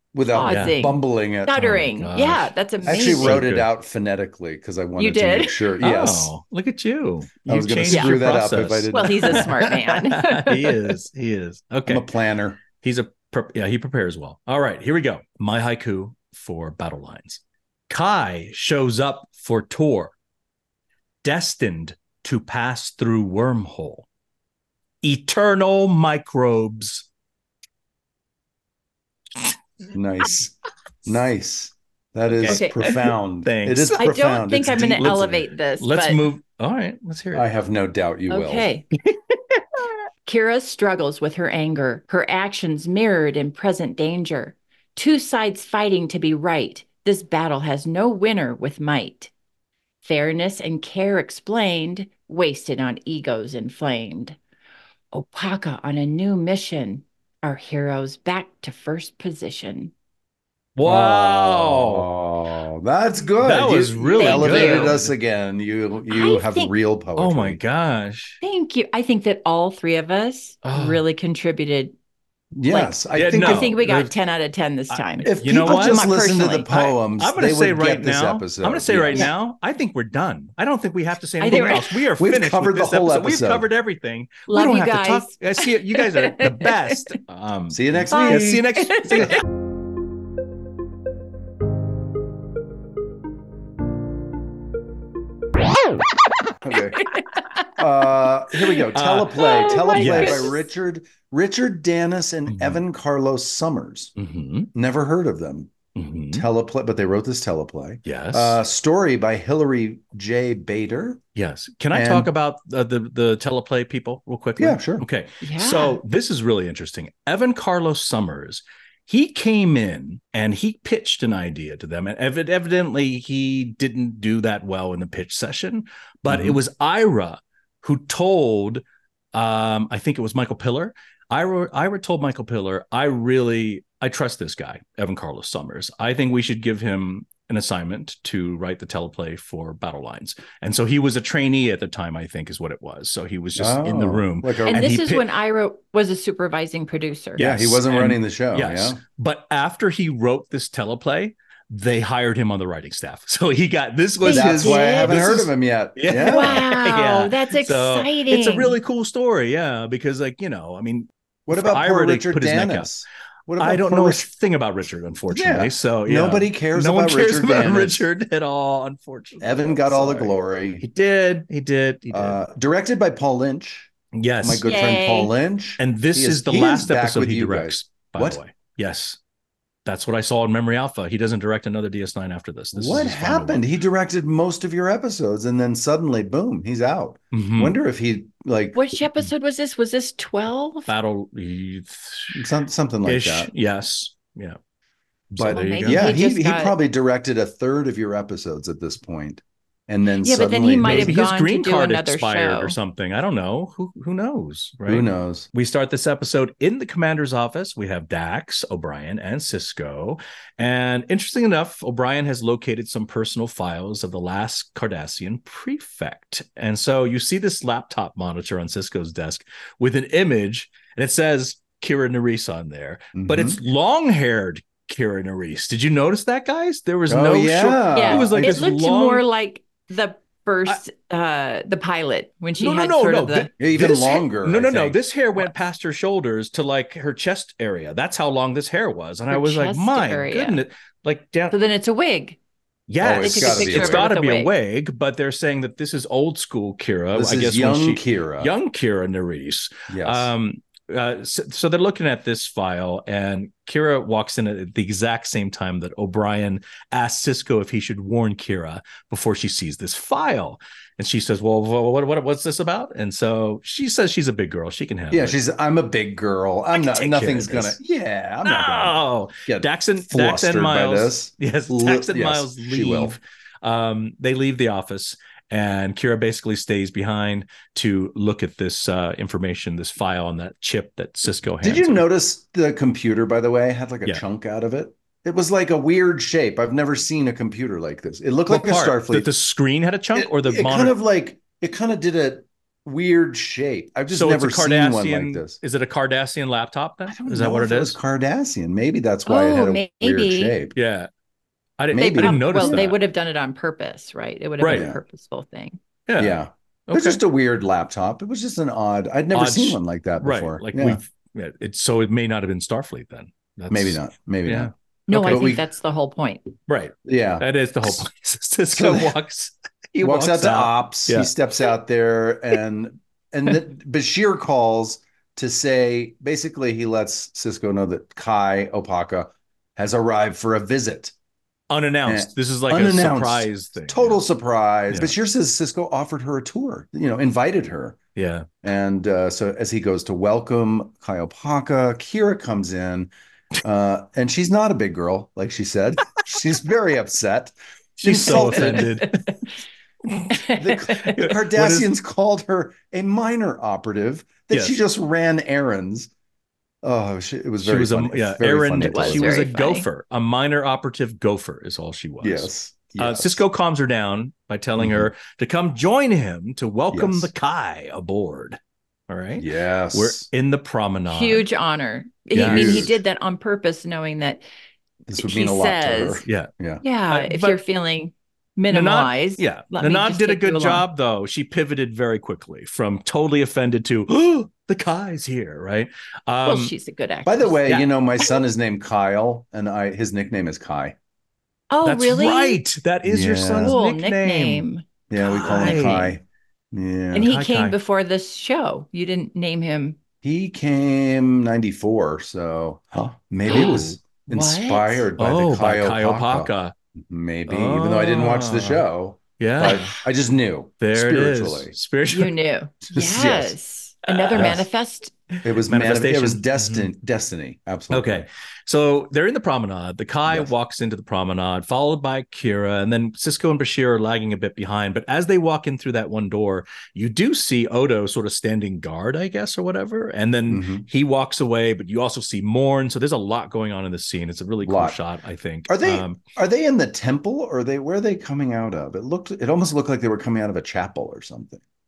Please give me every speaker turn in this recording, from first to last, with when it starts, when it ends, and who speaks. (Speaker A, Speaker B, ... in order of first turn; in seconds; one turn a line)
Speaker A: 0.1-1.7
Speaker B: 0.3-3.4
Speaker C: 0.4-0.8
Speaker C: 1.6-3.7
Speaker A: 2.9-6.3
Speaker B: 5.0-5.7
Speaker C: 5.8-12.1
Speaker A: 7.5-9.5
Speaker B: 7.9-8.2
Speaker B: 8.9-10.9
Speaker A: 11.9-12.6
Speaker C: 12.7-20.1
Speaker C: 21.2-24.1
Speaker C: 25.0-27.1
Speaker A: 29.9-35.4
Speaker C: 32.4-34.0
Speaker B: 32.5-32.9
Speaker B: 34.0-36.3
Speaker C: 34.7-37.5
Speaker A: 37.3-38.7
Speaker B: 38.3-38.9
Speaker C: 39.1-39.6
Speaker B: 40.2-49.3
Speaker B: 50.0-54.4
Speaker B: 55.1-59.9
Speaker C: 60.8-62.0
Speaker A: 60.9-67.6
Speaker C: 63.4-65.1
Speaker B: 64.2-65.0
Speaker B: 66.1-66.7
Speaker C: 67.2-68.4
Speaker B: 68.4-72.0
Speaker C: 70.7-71.0
Speaker A: 72.5-74.1
Speaker B: 72.7-76.9
Speaker C: 73.1-73.8
Speaker C: 74.9-76.0
Speaker A: 75.2-79.3
Speaker C: 76.7-89.4
Speaker B: 81.4-82.0
Speaker A: 82.2-83.7
Speaker B: 84.5-86.8
Speaker A: 87.7-88.7
Speaker B: 88.1-89.4
Speaker A: 96.6-97.2
Speaker B: 96.9-97.8
Speaker A: 97.7-104.1
Speaker C: 98.9-100.5
Speaker B: 99.4-100.7
Speaker C: 102.5-102.8
Speaker C: 104.2-104.7
Speaker A: 104.7-105.8
Speaker C: 106.0-106.5
Speaker A: 106.3-111.2
Speaker C: 108.0-108.6
Speaker C: 111.4-128.8
Speaker A: 111.9-112.3
Speaker A: 114.6-115.1
Speaker B: 115.4-116.0
Speaker A: 126.3-126.6
Speaker C: 129.3-145.3
Speaker A: 143.6-144.9
Speaker B: 144.7-147.4
Speaker A: 147.4-149.0
Speaker C: 147.4-162.9
Speaker B: 154.2-155.4
Speaker A: 154.3-156.7
Speaker B: 156.1-158.8
Speaker A: 161.5-164.2
Speaker C: 163.6-172.4
Speaker A: 165.3-168.1
Speaker A: 169.4-170.8
Speaker A: 172.1-173.9
Speaker C: 174.1-174.7
Speaker A: 174.4-178.4
Speaker B: 174.6-175.3
Speaker C: 175.8-179.2
Speaker C: 179.9-183.6
Speaker A: 182.7-188.8
Speaker C: 187.3-187.8
Speaker B: 188.7-190.9
Speaker C: 190.9-192.4
Speaker A: 192.3-193.5
Speaker C: 193.1-194.6
Speaker C: 195.3-196.1
Speaker A: 195.3-201.2
Speaker B: 195.5-196.8
Speaker B: 200.2-202.8
Speaker C: 200.8-229.2
Speaker A: 204.9-205.5
Speaker A: 223.2-223.6
Speaker A: 227.1-228.6
Speaker B: 227.9-233.5
Speaker C: 232.6-241.6
Speaker A: 233.6-235.0
Speaker B: 239.3-240.6
Speaker B: 241.5-242.4
Speaker C: 242.9-265.4
Speaker A: 243.0-244.1
Speaker B: 243.2-244.5
Speaker A: 247.1-248.5
Speaker A: 249.9-250.3
Speaker A: 265.1-273.2
Speaker C: 266.7-267.8
Speaker C: 268.4-282.0
Speaker A: 281.6-289.3
Speaker C: 288.5-290.9
Speaker A: 290.1-295.6
Speaker C: 294.1-298.0
Speaker A: 297.1-300.8
Speaker B: 299.3-300.6
Speaker C: 300.8-301.1
Speaker C: 301.8-303.0
Speaker A: 301.9-302.9
Speaker B: 301.9-305.8
Speaker C: 304.6-304.9
Speaker A: 304.6-305.0
Speaker C: 306.1-307.2
Speaker A: 306.2-311.0
Speaker C: 309.3-315.6
Speaker A: 313.7-315.6
Speaker B: 315.1-316.5
Speaker C: 316.7-321.3
Speaker A: 317.1-318.0
Speaker A: 318.7-319.1
Speaker A: 320.0-331.1
Speaker C: 331.7-334.2
Speaker A: 332.1-338.0
Speaker C: 338.2-338.5
Speaker A: 338.6-343.1
Speaker A: 343.6-348.9
Speaker C: 348.0-349.2
Speaker B: 348.2-349.4
Speaker B: 350.3-351.3
Speaker A: 350.6-356.1
Speaker C: 351.1-351.9
Speaker C: 354.5-354.8
Speaker A: 356.8-359.4
Speaker C: 357.6-371.4
Speaker B: 358.8-359.9
Speaker A: 362.2-363.4
Speaker A: 364.8-365.1
Speaker A: 366.9-367.3
Speaker A: 369.4-370.3
Speaker B: 371.1-374.4
Speaker C: 372.3-372.9
Speaker A: 372.4-373.0
Speaker A: 375.1-376.8
Speaker B: 375.2-376.2
Speaker B: 376.8-380.8
Speaker C: 377.1-377.6
Speaker C: 378.7-386.7
Speaker B: 386.4-387.6
Speaker A: 387.2-391.0
Speaker B: 391.7-392.6
Speaker C: 391.9-394.7
Speaker A: 393.1-393.8
Speaker B: 393.6-396.2
Speaker A: 395.1-397.3
Speaker C: 395.3-396.1
Speaker B: 397.1-400.0
Speaker C: 397.2-397.8
Speaker A: 400.2-411.7
Speaker B: 403.5-405.1
Speaker C: 403.5-404.0
Speaker C: 405.2-406.7
Speaker C: 407.5-408.9
Speaker C: 409.4-410.0
Speaker C: 410.8-412.4
Speaker B: 412.1-415.1
Speaker A: 412.9-413.6
Speaker C: 414.1-414.7
Speaker A: 414.4-414.6
Speaker A: 415.4-418.3
Speaker C: 415.6-416.9
Speaker C: 417.9-436.2
Speaker A: 420.3-420.5
Speaker A: 430.5-430.9
Speaker A: 434.6-435.0
Speaker A: 435.7-441.6